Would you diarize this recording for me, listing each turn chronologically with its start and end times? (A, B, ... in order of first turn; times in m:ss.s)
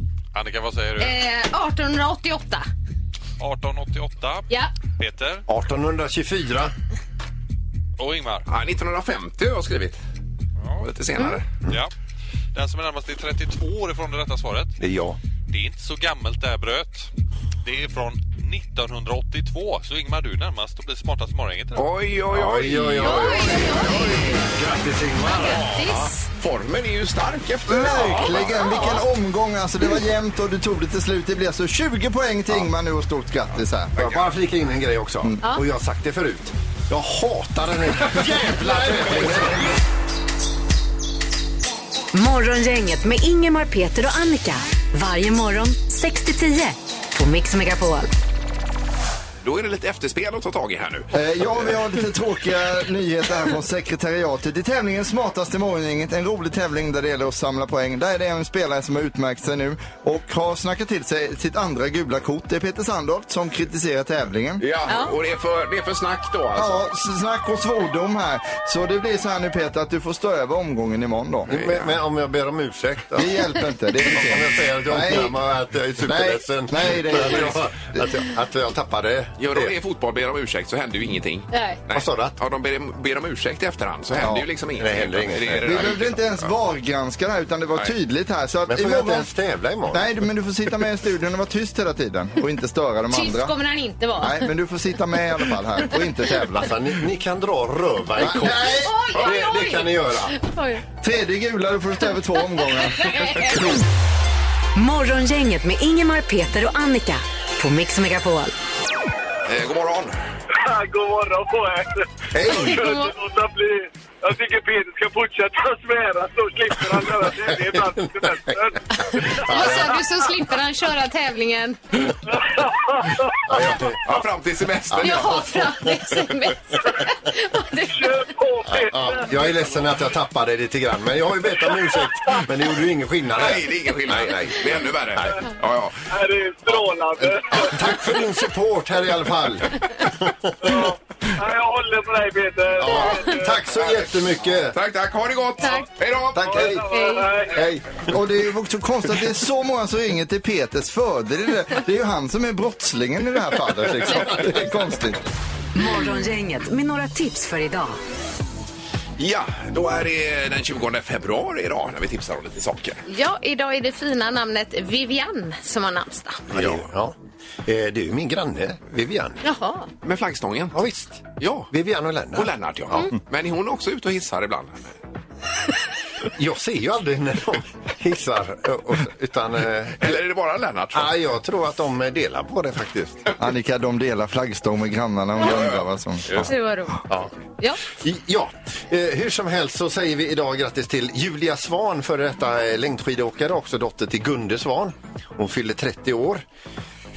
0:00.3-0:01.2 A
0:01.0-0:02.7 B
0:03.4-0:04.5 A
0:05.0-0:05.4 A
0:05.5-0:06.7 C
0:08.0-0:08.5 A
0:08.5-0:10.0 D
0:10.6-0:10.9 A
0:10.8-0:11.4 D
0:12.5-0:14.8 A
0:14.8-0:15.2 C
0:15.5-0:17.1 A
0:17.6-0:21.9 A
0:21.8-0:24.0 D
0:22.3-0:26.1 C
0:23.0-0:24.5 B
0:25.2-0:26.3 B
0:26.3-0:28.6 D
0:27.7-0:34.0 E
0:28.6-0:29.0 B
0:34.0-0:34.2 D
0:34.0-0:39.7 C
0:42.1-0:48.1 F
0:49.4-0:51.1 D
0:51.1-1:04.6 E
1:04.6-1:06.8 D
1:04.9-1:05.1 B
1:06.6-1:11.7 E
1:11.5-1:13.4 C
1:11.6-1:11.9 D
1:13.2-1:15.4 E
1:14.0-1:19.7 C
1:16.0-1:18.0 E
1:19.4-1:26.5 D
1:21.5-1:21.8 B
1:21.9-1:22.4 C
1:24.2-1:24.5 E
1:24.8-1:25.9 C
1:25.6-1:29.3 E
1:28.7-1:30.1 C
1:29.9-1:33.6 E
1:33.1-1:34.5 B
1:34.2-1:36.7 E
1:36.5-1:40.4 C
1:38.2-1:38.9 E
1:38.6-1:40.8 B
1:41.0-1:43.8 E
1:42.6-1:43.7 B
1:44.8-1:48.6 F
1:49.5-1:50.2 D
1:50.5-1:59.8 G
1:52.3-1:52.8 C
1:52.6-1:53.1 B
1:57.7-1:58.6 C
1:59.0-2:01.8 B
1:59.2-2:00.0 C
2:02.2-2:03.6 G
2:03.5-2:04.0 C
2:04.0-2:05.5 D
2:04.9-2:06.0 C
2:05.0-2:08.3 B
2:07.9-2:09.8 G
2:08.7-2:15.4 C
2:13.3-2:16.1 D
2:16.1-2:17.9 G
2:17.5-2:20.9 C
2:20.6-2:23.6 G
2:22.8-2:24.8 C
2:23.8-2:24.1 D
2:24.7-2:26.8 D
2:25.6-2:25.9 B
2:26.4-2:26.8 C
2:26.4-2:27.8 G
2:26.9-2:27.4 B
2:27.6-2:27.8 C
2:28.0-2:35.2 E
2:35.8-2:38.0 F
2:39.2-2:43.0 D
2:43.1-2:46.4 B
2:46.5-2:47.2 C
2:46.5-2:46.8 D
2:47.7-2:49.4 C
2:49.4-2:49.9 B
2:50.0-2:50.8 D
2:50.7-2:53.1 C
2:51.4-2:51.7 D
2:52.3-2:54.9 D
2:56.4-3:00.2 C
3:00.0-3:01.2 D
3:00.9-3:03.3 C
3:03.4-3:06.5 E
3:05.4-3:06.5 D
3:06.4-3:07.0 B
3:07.9-3:16.4 C